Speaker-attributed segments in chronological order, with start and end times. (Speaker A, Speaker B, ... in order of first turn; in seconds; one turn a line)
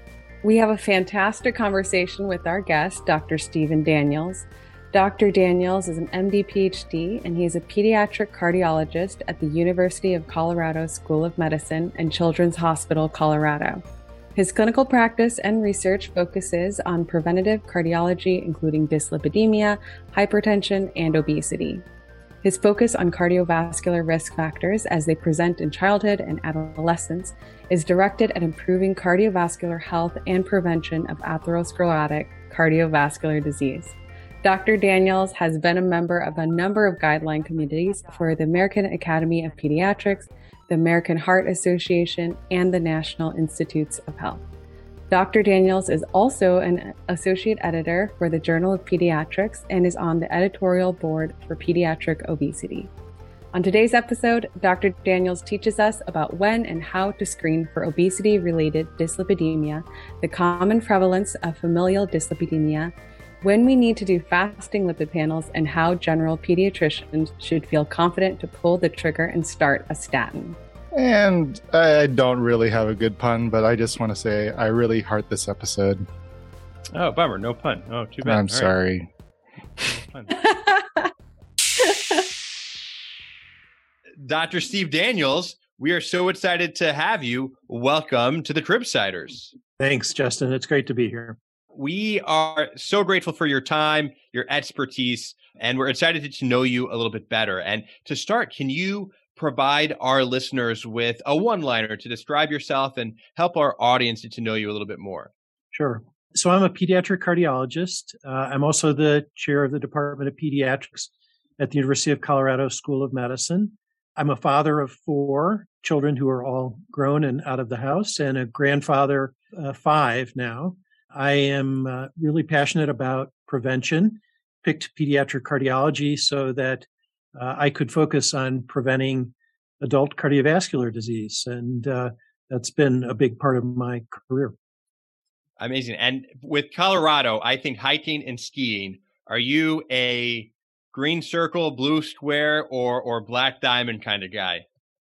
Speaker A: 0.4-13.8
Speaker A: 14.3-21.9
Speaker A: 22.4-44.4
Speaker A: 45.1-52.9
Speaker A: 53.5-70.6
Speaker B: 70.9-76.0
Speaker C: 76.9-78.7
Speaker B: 78.2-79.1
Speaker C: 79.9-80.3
Speaker A: 80.5-80.8
Speaker C: 84.2-89.5
Speaker D: 89.8-91.4
Speaker C: 91.7-105.3
Speaker D: 105.7-134.6
Speaker C: 135.6-144.7